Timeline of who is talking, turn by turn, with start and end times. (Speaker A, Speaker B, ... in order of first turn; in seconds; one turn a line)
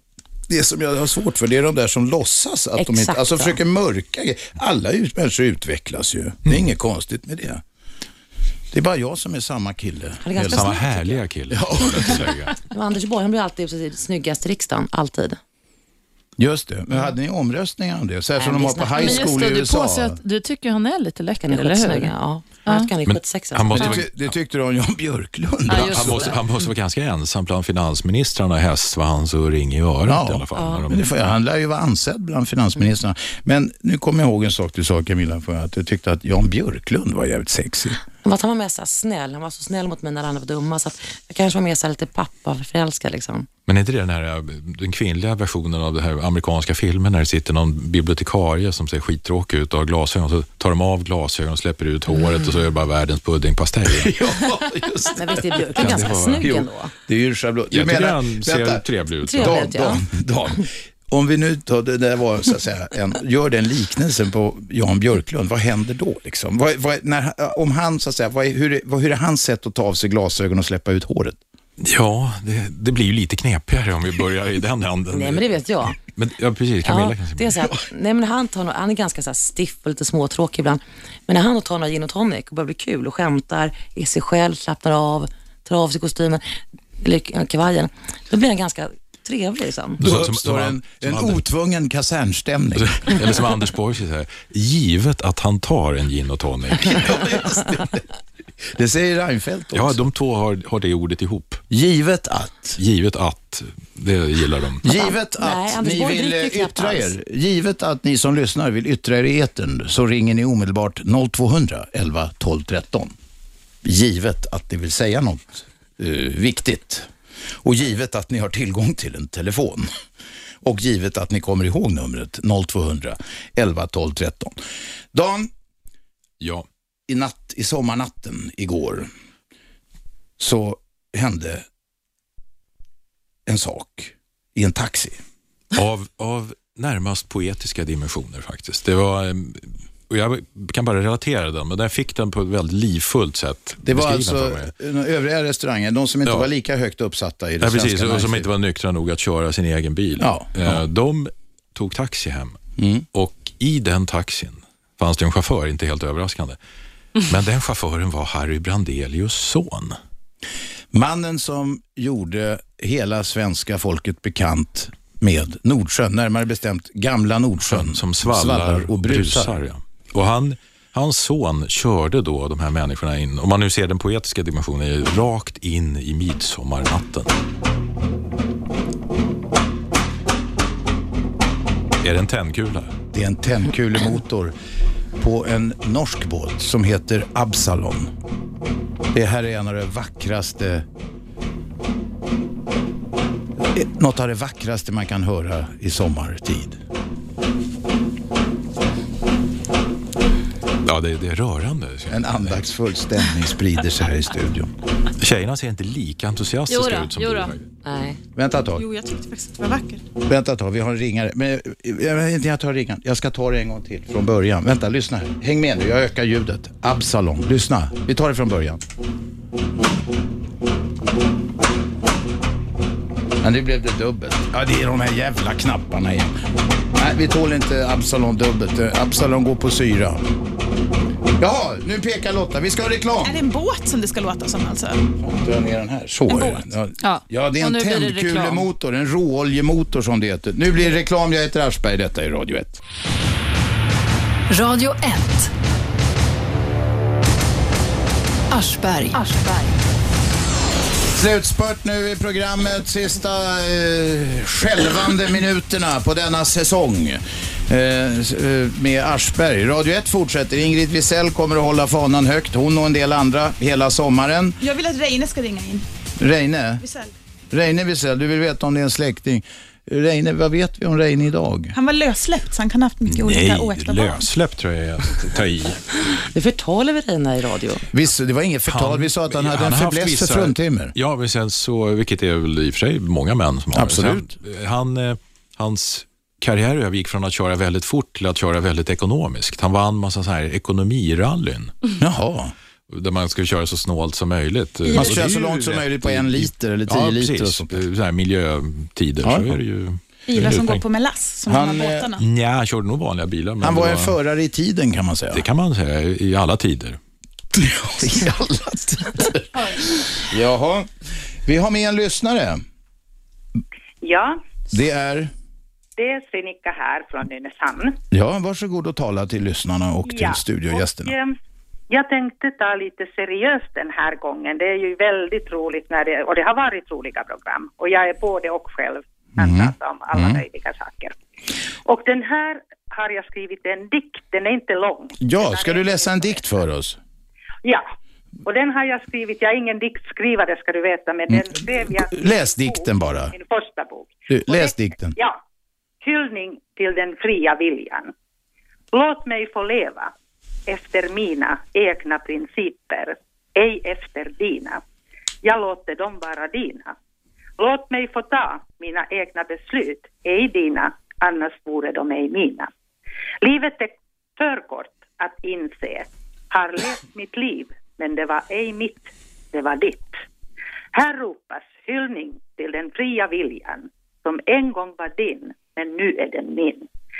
Speaker A: 0.5-7.6
Speaker B: 2.8-3.6
Speaker A: 8.7-10.8
Speaker B: 10.2-11.2
Speaker C: 10.4-12.6
Speaker A: 11.5-12.3
Speaker B: 12.7-15.4
Speaker A: 16.4-20.2
Speaker B: 18.4-19.4
Speaker D: 18.9-22.9
Speaker B: 21.4-23.9
Speaker C: 23.1-24.3
Speaker A: 23.7-26.4
Speaker D: 25.7-26.1
Speaker C: 25.7-31.1
Speaker A: 30.1-38.0
Speaker B: 38.2-43.5
Speaker C: 43.7-54.2
Speaker A: 53.9-71.4
Speaker B: 55.1-56.9
Speaker C: 55.8-56.5
Speaker C: 57.7-59.7
Speaker B: 59.2-60.0
Speaker C: 71.8-77.7
Speaker B: 75.1-76.0
Speaker B: 76.8-86.4
Speaker B: 87.0-90.0
Speaker C: 90.0-91.4
Speaker A: 90.0-93.3
Speaker C: 92.8-97.6
Speaker A: 97.0-97.6
Speaker A: 98.7-100.0
Speaker C: 99.7-101.6
Speaker A: 101.7-102.8
Speaker C: 102.8-104.8
Speaker A: 104.8-113.1
Speaker B: 104.8-107.2
Speaker A: 113.8-117.1
Speaker A: 117.6-119.9
Speaker A: 120.6-124.6
Speaker A: 125.1-125.5
Speaker C: 126.4-126.6
Speaker A: 127.1-129.1
Speaker A: 130.4-131.6
Speaker A: 133.5-135.2
Speaker C: 135.7-144.7
Speaker A: 143.8-148.5
Speaker C: 147.6-152.6
Speaker A: 150.2-150.8
Speaker A: 152.8-153.0
Speaker C: 153.1-156.6
Speaker C: 157.2-160.0
Speaker A: 160.9-169.6
Speaker C: 167.7-177.3
Speaker C: 182.0-182.9
Speaker A: 183.1-184.5
Speaker A: 185.2-188.1
Speaker A: 189.1-190.8
Speaker A: 193.7-196.8
Speaker C: 200.8-202.6
Speaker A: 202.1-204.7
Speaker C: 205.2-207.7
Speaker D: 206.7-207.5
Speaker B: 207.8-208.2
Speaker A: 208.3-208.9
Speaker E: 208.6-210.0
Speaker A: 210.2-218.8
Speaker A: 223.4-226.3
Speaker A: 226.9-230.2
Speaker A: 231.4-233.4
Speaker E: 233.2-235.0
Speaker A: 235.2-242.8
Speaker D: 237.0-238.7
Speaker F: 244.5-245.5
Speaker F: 248.5-249.7
Speaker A: 251.1-264.6
Speaker E: 264.6-265.8
Speaker A: 266.2-266.8
Speaker E: 266.8-267.1
Speaker A: 267.5-271.8
Speaker E: 271.7-274.3
Speaker C: 273.1-275.9
Speaker B: 276.3-277.8
Speaker A: 277.9-280.9
Speaker C: 278.7-291.7
Speaker A: 283.7-284.3
Speaker A: 292.0-292.5
Speaker C: 292.9-300.8
Speaker A: 294.9-297.8
Speaker A: 299.2-299.6
Speaker E: 300.3-302.2
Speaker A: 301.4-302.1
Speaker C: 302.2-304.1
Speaker A: 303.6-305.4
Speaker C: 305.3-307.0
Speaker A: 307.5-310.9
Speaker A: 311.4-312.6
Speaker G: 314.0-314.4
Speaker A: 314.7-315.3
Speaker G: 316.0-318.0
Speaker A: 318.1-321.1
Speaker G: 320.0-321.4
Speaker G: 321.9-331.1
Speaker A: 329.4-330.4
Speaker G: 331.9-336.4
Speaker A: 335.2-337.0
Speaker G: 338.4-345.4
Speaker A: 341.3-343.4
Speaker A: 344.3-345.2
Speaker G: 346.0-348.1
Speaker G: 348.9-350.1
Speaker G: 350.7-354.8
Speaker G: 355.4-356.9
Speaker G: 357.6-362.7
Speaker G: 363.4-370.2
Speaker G: 370.9-376.9